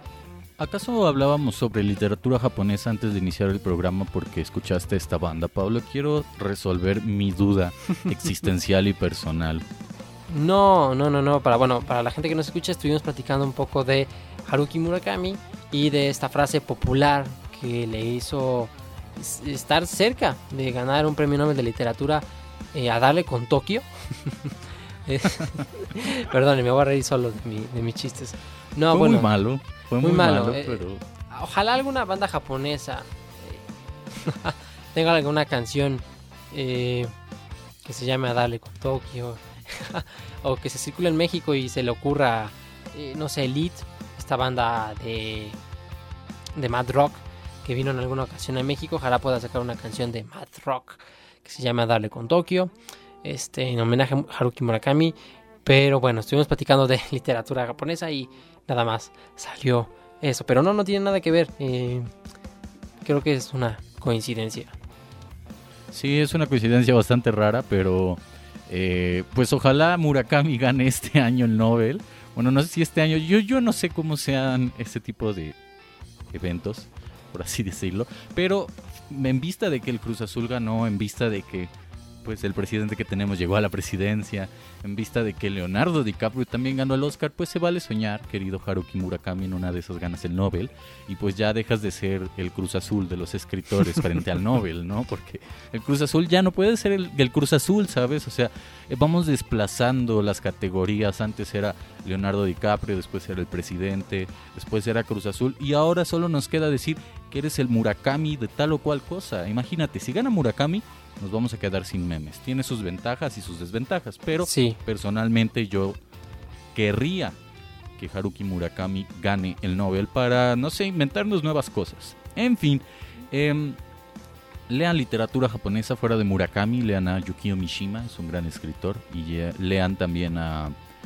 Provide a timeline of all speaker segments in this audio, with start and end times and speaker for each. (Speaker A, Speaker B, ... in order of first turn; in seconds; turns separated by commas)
Speaker A: 0.6-9.6, Speaker B: 10.3-29.3, Speaker A: 28.9-31.0, Speaker B: 30.0-37.1, Speaker B: 37.8-45.6, Speaker B: 46.5-52.7, Speaker B: 53.2-62.1, Speaker B: 63.0-64.8, Speaker A: 65.9-75.5, Speaker A: 76.3-81.7, Speaker A: 82.2-116.0, Speaker B: 114.4-114.8, Speaker A: 116.7-117.4, Speaker A: 118.0-123.8, Speaker A: 124.7-130.7